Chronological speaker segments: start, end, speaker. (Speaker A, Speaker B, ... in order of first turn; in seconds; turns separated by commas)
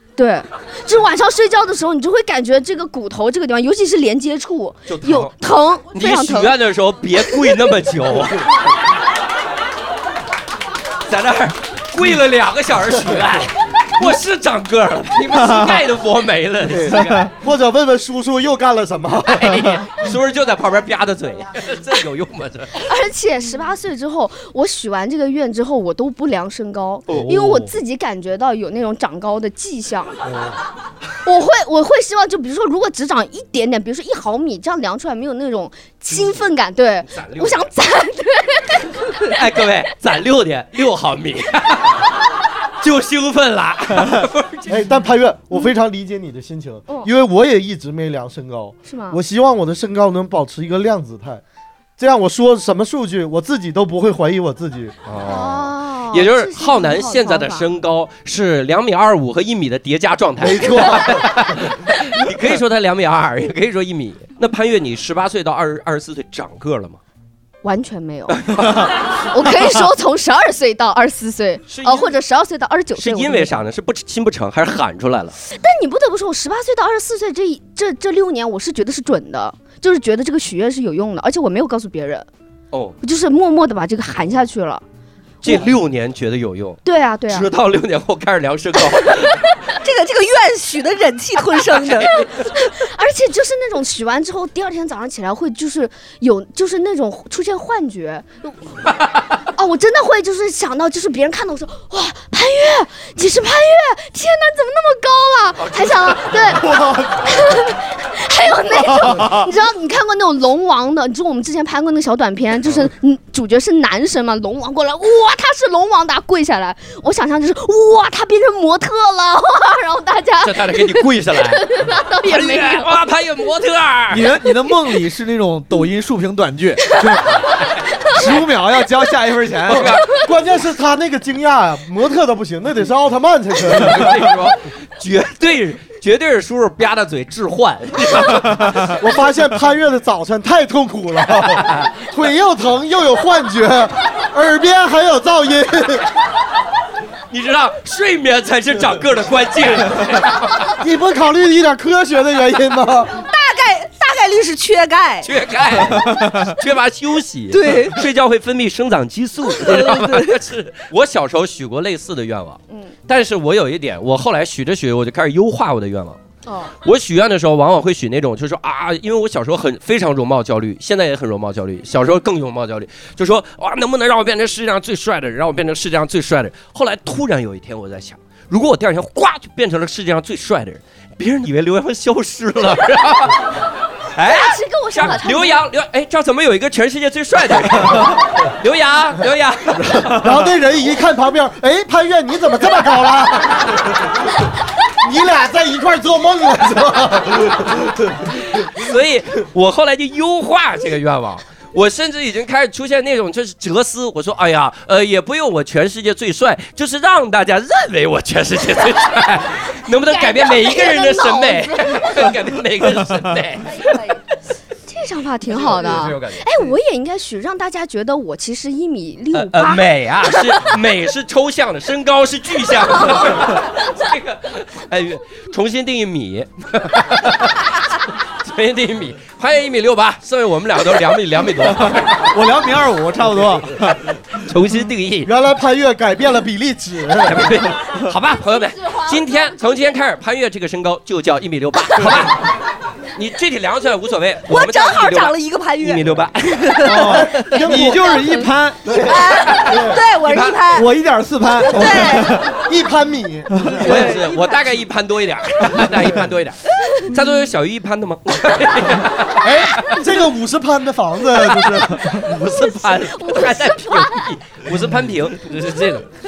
Speaker A: 0.2-6.5, Speaker B: 4.9-5.3, Speaker C: 5.9-6.4, Speaker B: 5.9-8.5, Speaker B: 11.1-17.3, Speaker D: 16.7-19.8, Speaker B: 19.3-22.7, Speaker A: 22.8-30.1, Speaker E: 27.1-27.5, Speaker D: 30.2-30.5, Speaker A: 31.2-39.3, Speaker B: 37.1-37.6, Speaker B: 39.3-42.0, Speaker B: 42.8-45.0, Speaker D: 44.7-51.4, Speaker A: 48.8-49.2, Speaker D: 52.0-54.9, Speaker B: 55.0-67.0, Speaker A: 55.2-57.7, Speaker D: 60.4-61.5, Speaker A: 67.6-68.5, Speaker B: 68.4-68.9, Speaker A: 69.3-73.6, Speaker B: 71.7-72.2, Speaker B: 73.0-75.3, Speaker A: 75.5-82.3, Speaker B: 82.7-83.0, Speaker A: 83.0-84.8, Speaker B: 85.4-89.4, Speaker A: 86.8-87.5, Speaker C: 89.8-92.2, Speaker A: 92.1-98.6, Speaker A: 99.5-122.9, Speaker B: 105.6-106.7, Speaker E: 106.7-107.2, Speaker E: 109.0-109.4, Speaker B: 120.4-121.7, Speaker B: 122.2-124.3, Speaker E: 124.1-127.4, Speaker E: 128.1-130.0, Speaker B: 129.7-130.2, Speaker D: 129.7-134.3, Speaker B: 133.8-138.9, Speaker D: 139.0-146.1, Speaker B: 147.3-150.7, Speaker D: 150.8-153.2, Speaker C: 153.2-155.3, Speaker B: 155.2-166.2, Speaker C: 157.5-158.0, Speaker C: 159.6-160.3, Speaker A: 166.4-166.7, Speaker B: 166.8-183.6, Speaker B: 184.1-190.4, Speaker A: 184.2-185.6, Speaker D: 190.2-193.9, Speaker D: 195.0-198.0, Speaker B: 198.4-213.9, Speaker A: 210.1-212.3, Speaker A: 214.9-219.8, Speaker B: 215.5-216.7, Speaker B: 219.3-227.7, Speaker B: 228.4-232.3, Speaker E: 231.8-234.0, Speaker B: 234.3-235.3, Speaker D: 235.2-237.5, Speaker B: 237.2-242.5, Speaker A: 238.4-239.8, Speaker B: 243.2-246.9, Speaker C: 244.5-247.4, Speaker E: 246.8-248.8, Speaker D: 247.0-250.0, Speaker C: 249.0-250.9, Speaker B: 250.2-250.5, Speaker E: 250.7-252.5, Speaker C: 251.6-252.4, Speaker D: 252.6-254.1, Speaker B: 253.8-259.9, Speaker C: 253.8-254.2, Speaker D: 259.4-262.3, Speaker B: 261.4-266.1, Speaker A: 262.8-264.3